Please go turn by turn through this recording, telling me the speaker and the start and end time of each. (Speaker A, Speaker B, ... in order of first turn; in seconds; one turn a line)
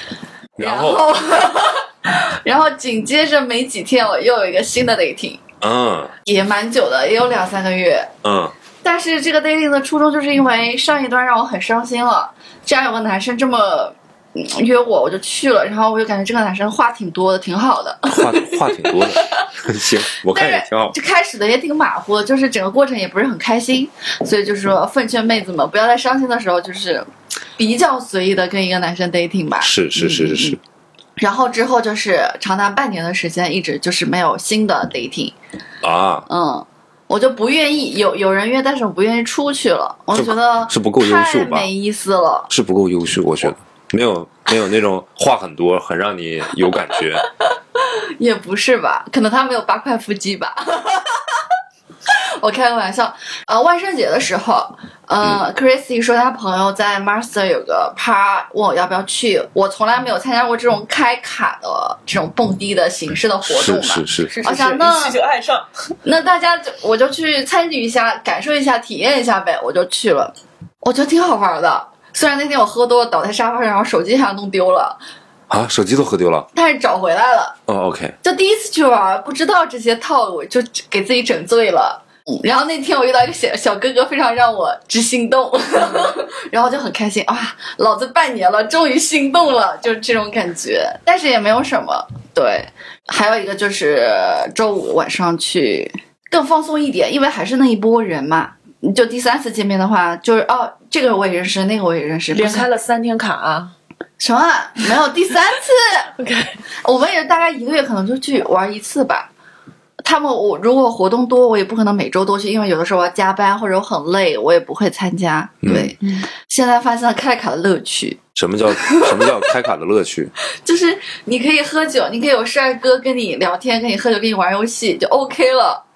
Speaker A: 0.6-1.1
Speaker B: 0.6-5.4
Speaker A: 5.6-6.1
Speaker B: 6.2-8.1
Speaker A: 8.2-8.5
Speaker B: 8.8-19.4
Speaker A: 18.1-20.9
Speaker B: 20.3-30.6
Speaker A: 29.6-30.6
Speaker B: 31.2-35.3
Speaker A: 35.8-36.3
Speaker B: 36.3-42.5
Speaker A: 40.1-41.7
Speaker A: 42.5-47.3
Speaker B: 47.8-51.4
Speaker B: 52.1-65.2
Speaker A: 63.5-64.3
Speaker C: 64.3-65.9
Speaker B: 66.0-75.0
Speaker A: 75.5-76.5
Speaker B: 76.5-77.5
Speaker A: 77.7-78.1
Speaker B: 78.2-102.7
Speaker C: 102.3-103.7
Speaker B: 104.2-106.1
Speaker C: 106.2-106.6
Speaker B: 106.8-109.3
Speaker B: 110.0-118.2
Speaker A: 115.6-115.9
Speaker A: 118.3-120.3
Speaker B: 118.8-119.3
Speaker B: 120.6-125.8